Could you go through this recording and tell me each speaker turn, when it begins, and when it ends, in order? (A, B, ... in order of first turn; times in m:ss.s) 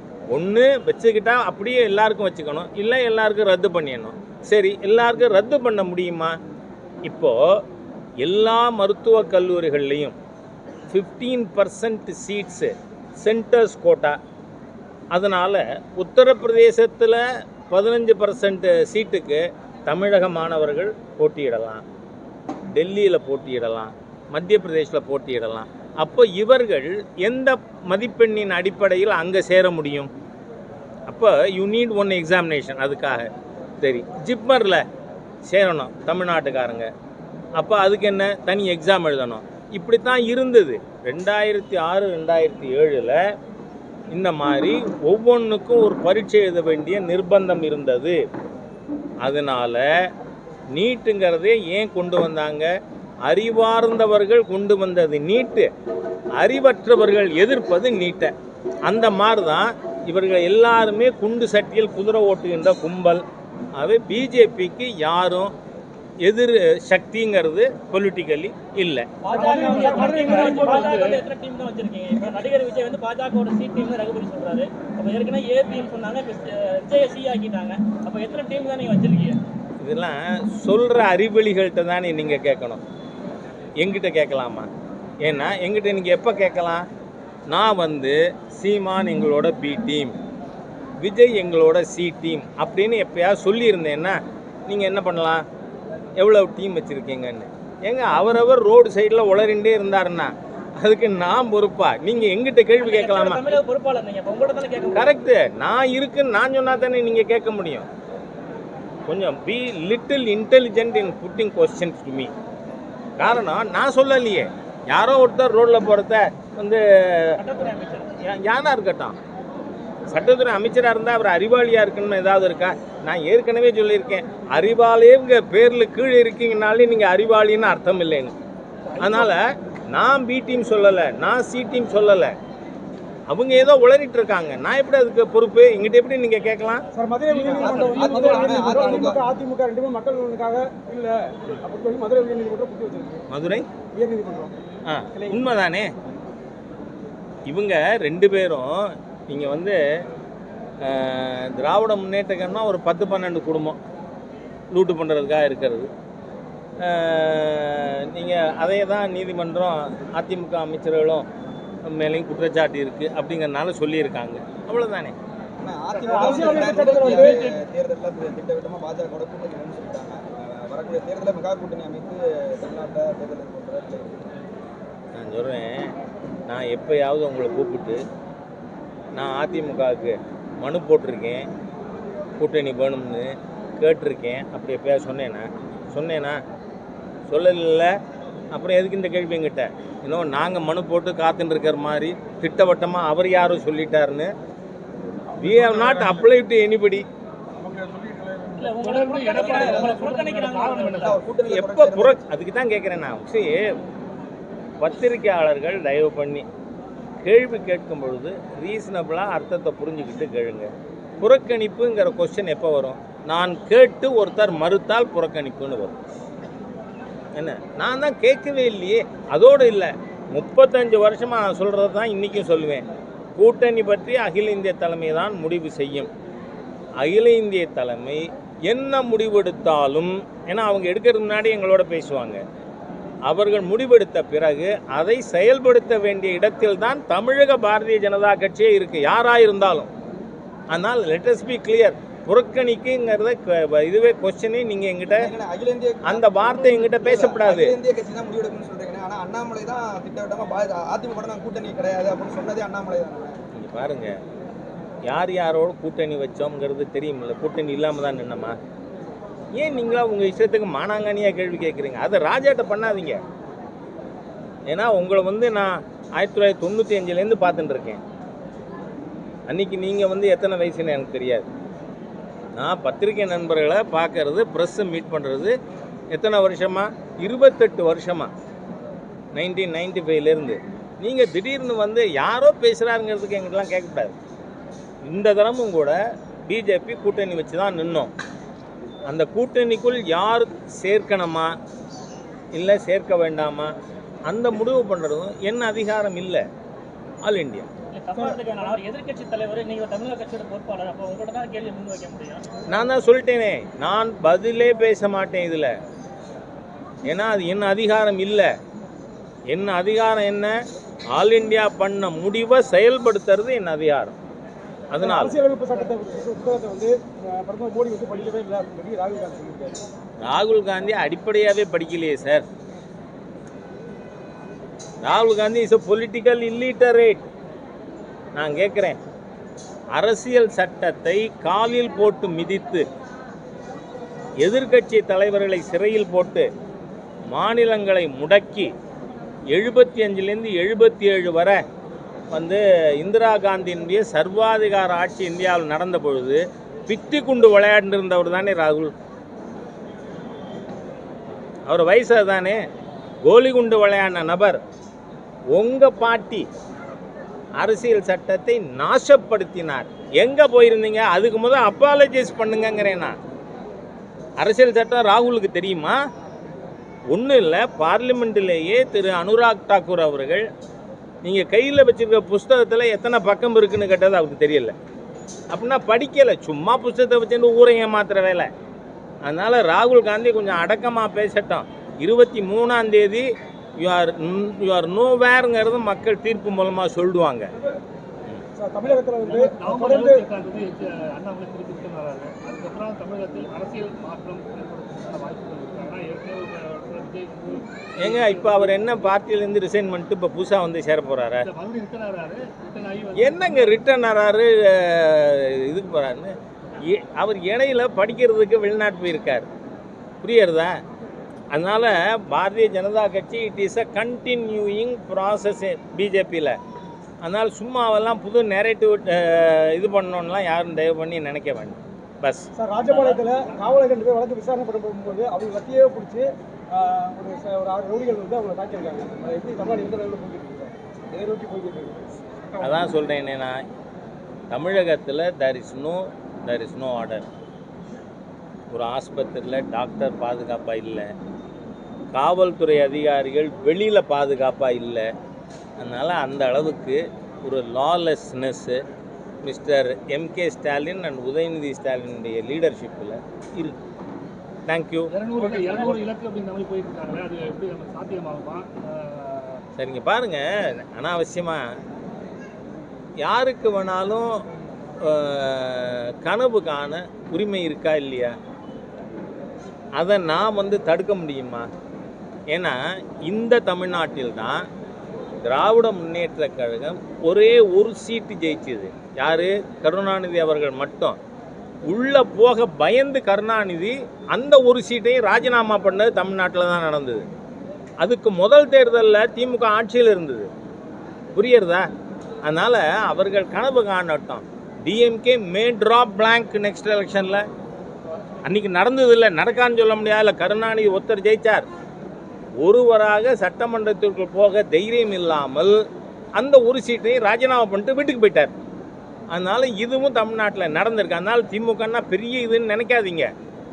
0:00.3-0:06.3 A
0:07.0-0:07.6 A
0:08.2-0:10.2 A
0:10.9-0:14.2 A
0:15.1-0:21.8 A
0:22.7-0:30.1 A
0:31.1-0:33.3 A
0:33.8-0:34.8 A
0:35.4-0:36.9 A
0:37.6-0:43.2 A
0:44.1-0:48.2 A
0:49.2-0:49.9 A
0:50.7-0:52.7 A
0:53.2-0:55.7 A
0:56.4-0:58.3 A
0:58.9-1:03.2 A
1:03.8-1:05.5 A
1:06.2-1:09.1 A
1:09.2-1:19.4 B
1:09.3-1:11.0 C
1:09.3-1:11.2 D
1:19.8-1:22.8 A
1:23.8-1:24.7 A
1:25.2-1:26.9 A
1:27.5-1:30.2 A
1:31.0-1:35.4 A
1:36.2-1:43.5 A
1:42.8-1:45.1 B
1:44.9-1:47.9 A
1:49.1-1:52.3 A
1:53.2-1:57.4 A
1:57.4-1:58.1 B
1:58.2-1:59.2 A
2:00.1-2:08.3 A
2:08.9-2:09.4 D
2:09.0-2:12.3 A
2:13.3-2:16.8 A
2:16.9-2:23.2 C
2:17.3-2:19.1 D
2:17.4-2:19.2 E
2:23.3-2:23.6 A
2:23.9-2:24.6 C
2:24.9-2:25.9 A
2:25.1-2:25.4 C
2:27.5-2:29.8 A
2:30.8-2:33.8 A
2:34.7-2:35.9 A
2:36.8-2:41.3 A
2:41.8-2:45.1 A
2:45.6-2:54.2 E
2:45.9-2:47.6 D
2:46.1-2:47.4 C
2:55.1-2:55.9 A
2:56.5-2:58.0 A
2:59.2-3:01.5 A
3:02.4-3:06.4 A
3:07.3-3:07.9 A
3:08.5-3:14.3 A
3:15.3-3:16.3 C
3:15.4-3:17.0 A
3:17.6-3:18.8 C
3:18.6-3:21.2 B
3:18.7-3:21.2 D
3:19.4-3:20.0 E
3:21.0-3:22.2 E
3:21.5-3:23.7 A
3:24.8-3:26.4 A
3:27.2-3:36.0 A
3:37.3-3:42.8 A
3:43.4-3:46.1 A
3:47.0-3:52.4 A
3:53.3-3:59.9 A
4:00.7-4:05.3 A
4:05.2-4:13.4 E
4:06.0-4:07.7 A
4:13.5-4:14.1 A
4:15.1-4:18.6 A
4:19.6-4:23.2 A
4:24.7-4:28.0 A
4:29.5-4:31.5 A
4:32.6-4:35.5 A
4:36.1-4:38.3 A
4:39.3-4:44.2 A
4:45.0-4:46.0 A
4:46.5-4:48.1 A
4:49.1-4:51.5 A
4:52.5-4:53.7 A
4:54.3-4:56.4 A
4:57.2-4:57.7 A
4:57.9-5:02.4 B
5:02.7-5:05.7 A
5:07.0-5:08.5 A
5:09.5-5:10.5 A
5:11.1-5:14.2 A
5:14.9-5:15.4 A
5:15.0-5:19.8 C
5:20.2-5:22.4 A
5:25.0-5:27.2 A
5:28.4-5:29.0 A
5:29.9-5:32.8 A
5:34.4-5:36.5 A
5:37.2-5:38.7 A
5:39.5-5:41.6 A
5:42.3-5:48.9 A
5:51.7-5:52.6 A
5:53.2-5:54.6 A
5:55.5-5:56.5 A
5:57.6-6:03.2 A
6:04.4-6:06.0 A
6:07.1-6:10.4 A
6:11.2-6:14.7 A
6:15.5-6:18.5 A
6:19.2-6:27.5 A
6:28.6-6:30.2 C
6:29.2-6:39.1 D
6:38.0-6:41.5 A
6:41.4-6:43.8 D
6:43.2-6:49.5 A
6:50.2-6:50.8 A
6:51.5-6:56.6 A
6:57.2-7:02.5 A
7:02.5-7:12.8 C
7:02.9-7:03.5 B
7:12.6-7:13.6 A
7:14.5-7:17.3 A
7:18.7-7:21.1 A
7:22.1-7:25.1 A
7:25.8-7:28.8 A
7:29.4-7:33.8 A
7:34.7-7:35.1 A
7:35.1-7:39.6 D
7:35.4-7:36.0 C
7:39.8-7:41.6 A
7:43.2-7:44.4 A
7:45.0-7:48.3 A
7:50.0-7:51.7 A
7:52.5-7:54.7 A
7:55.4-8:01.2 A
8:01.9-8:07.3 A
8:08.0-8:10.5 A
8:11.4-8:11.9 A
8:12.4-8:17.4 A
8:18.4-8:21.6 A
8:22.6-8:25.8 A
8:26.4-8:28.5 A
8:29.3-8:33.3 A